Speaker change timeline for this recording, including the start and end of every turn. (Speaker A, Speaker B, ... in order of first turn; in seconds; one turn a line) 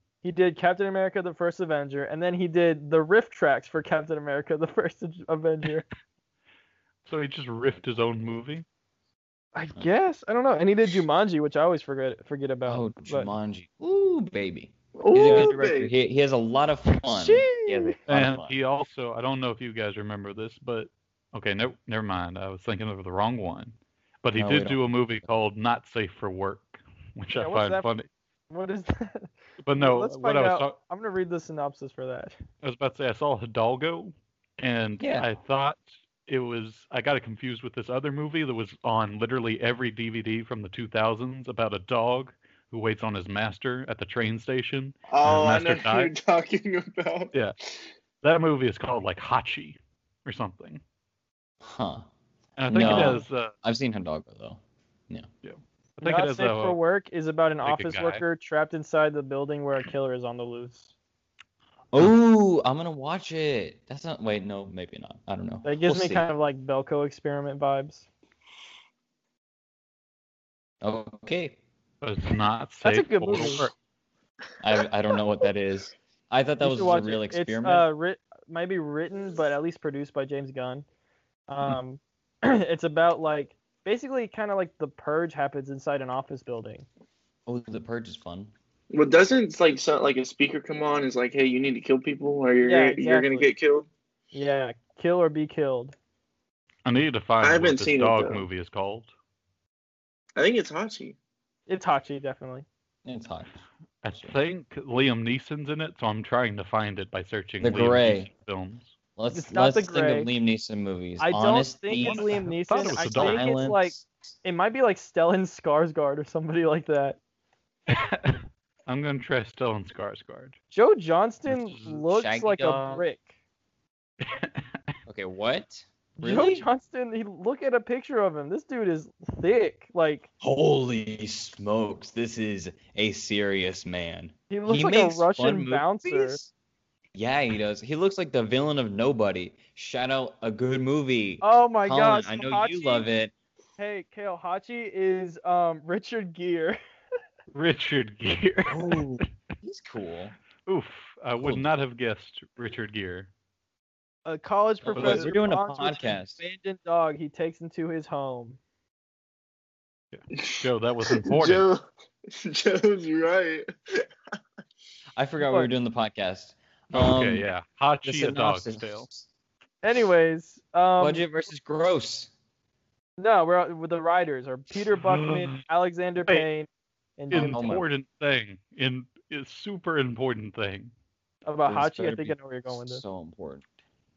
Speaker A: 0.2-5.8
Speaker B: 7.0-8.6
Speaker A: 9.5-13.3
Speaker C: 12.7-18.5
Speaker D: 15.0-15.9
Speaker A: 15.2-15.5
Speaker A: 17.0-18.0
Speaker B: 18.1-28.1
Speaker C: 24.4-24.8
Speaker A: 27.3-27.9
Speaker A: 28.5-32.4
Speaker B: 29.6-30.8
Speaker B: 32.6-46.1
Speaker C: 35.0-35.2
Speaker D: 45.1-47.3
Speaker B: 48.2-50.8
Speaker C: 51.6-52.0
Speaker B: 52.6-53.5
Speaker C: 52.7-55.3
Speaker A: 52.8-53.2
Speaker B: 55.4-56.8
Speaker A: 56.0-60.9
Speaker B: 57.6-58.2
Speaker C: 61.9-66.2
Speaker A: 65.6-68.0
Speaker C: 70.8-71.6
Speaker B: 72.0-73.7
Speaker A: 72.8-73.7
Speaker C: 74.6-77.8
Speaker A: 76.6-80.8
Speaker A: 81.5-86.8
Speaker C: 87.5-88.5
Speaker D: 88.9-93.9
Speaker A: 92.6-93.5
Speaker A: 94.3-95.9
Speaker B: 96.8-99.1
Speaker D: 97.4-98.4
Speaker D: 100.3-101.2
Speaker A: 101.7-102.7
Speaker C: 103.0-103.5
Speaker B: 104.0-108.9
Speaker C: 107.6-108.3
Speaker C: 109.2-114.1
Speaker A: 109.3-110.3
Speaker A: 111.2-117.2
Speaker B: 111.9-113.5
Speaker B: 117.9-120.5
Speaker A: 120.7-123.3
Speaker B: 121.5-122.0
Speaker C: 122.1-123.0
Speaker B: 124.2-124.8
Speaker C: 125.1-126.7
Speaker A: 126.2-130.3
Speaker C: 130.4-136.5
Speaker A: 134.5-136.4
Speaker C: 137.1-143.3
Speaker A: 141.4-143.1
Speaker A: 143.8-146.8
Speaker B: 147.5-149.0
Speaker C: 148.7-150.3
Speaker B: 150.7-153.3
Speaker C: 151.4-151.6
Speaker A: 154.2-158.6
Speaker C: 154.8-156.4
Speaker B: 154.9-155.3
Speaker B: 160.1-161.7
Speaker D: 160.4-164.0
Speaker C: 165.2-167.5
Speaker A: 165.4-165.7
Speaker B: 166.9-169.1
Speaker C: 168.0-169.3
Speaker A: 169.8-171.3
Speaker C: 171.0-172.3
Speaker A: 173.2-177.6
Speaker B: 174.9-175.6
Speaker C: 177.3-177.8
Speaker B: 177.3-180.9
Speaker A: 181.4-183.0
Speaker C: 181.7-183.7